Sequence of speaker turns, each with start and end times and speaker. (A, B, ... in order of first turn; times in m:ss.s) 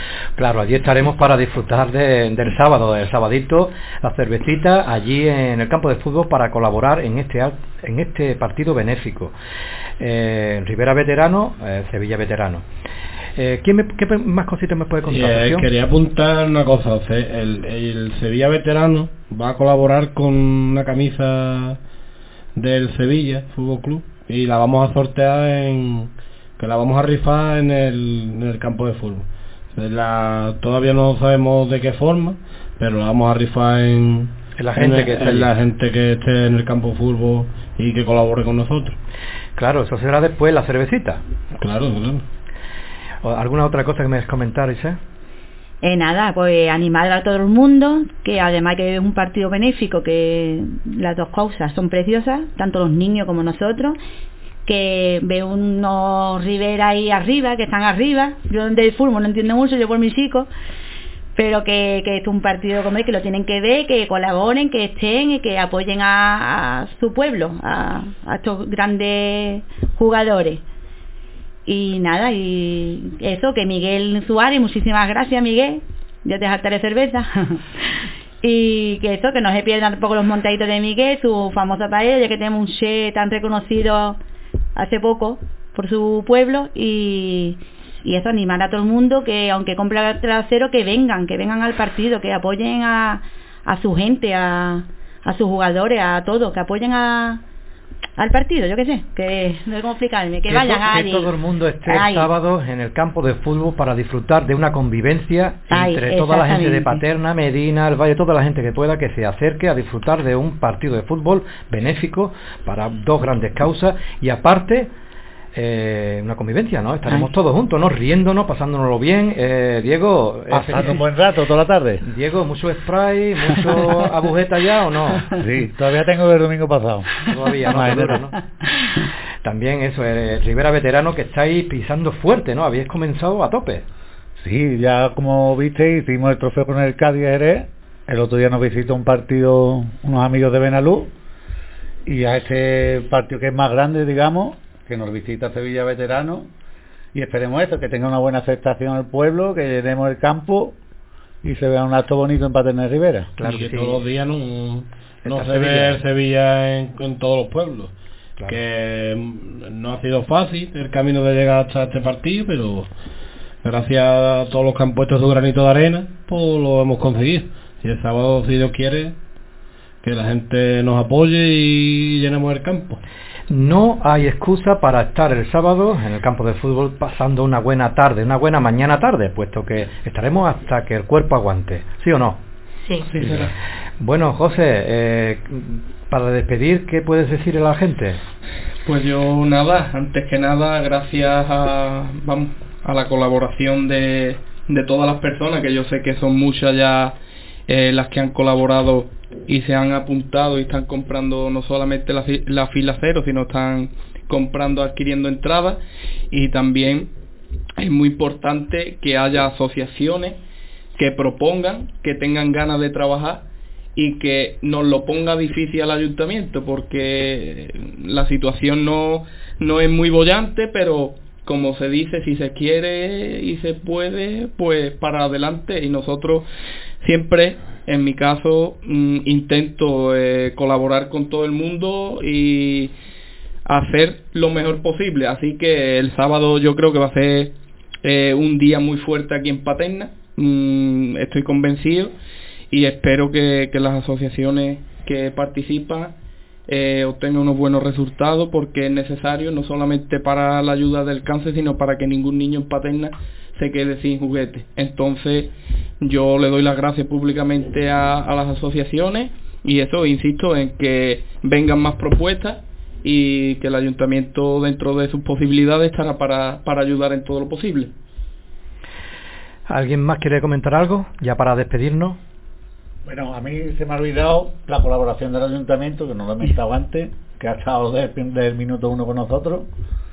0:00.4-0:09.3 A
0:10.0-0:12.6 A
0:13.4-0:15.7 A
0:15.3-0:21.7 B
0:22.6-0:26.0 B
0:26.6-0:29.2 B
0:29.8-0:34.2 B
0:34.6-0:35.5 A
0:35.0-0:38.9 B
0:39.6-0:41.2 A
0:41.6-0:42.2 B
0:43.2-0:45.0 A
0:45.8-0:54.0 C
0:54.6-1:00.5 C
1:01.3-1:10.6 C
1:11.6-1:17.6 C
1:18.4-1:24.2 C
1:24.7-1:37.4 C
1:38.2-1:41.3 C
1:40.5-1:54.9 A
1:41.8-1:42.3 C
1:45.7-1:47.0 C
1:55.5-2:01.0 A
2:00.5-2:02.0 D
2:02.0-2:05.3 A
2:05.4-2:08.2 D
2:07.3-2:08.4 A
2:09.4-2:13.8 A
2:14.4-2:21.1 D
2:22.0-2:26.5 D
2:27.1-2:30.7 D
2:31.4-2:33.3 D
2:33.4-2:34.0 A
2:33.8-2:34.8 B
2:35.2-2:36.0 A
2:35.5-2:37.9 B
2:38.5-2:42.8 B
2:43.6-2:49.1 B
2:50.0-2:52.9 B
2:53.5-3:02.4 A
3:03.0-3:03.5 E
3:04.0-3:08.2 A
3:08.8-3:17.1 E
3:17.7-3:25.8 E
3:26.3-3:27.1 E
3:27.8-3:30.4 E
3:31.0-3:33.4 E
3:34.0-3:46.4 E
3:47.0-3:52.9 E
3:53.6-4:02.1 E
4:02.7-4:06.1 E
4:06.7-4:27.9 E
4:29.7-4:32.2 A
4:33.0-4:39.6 D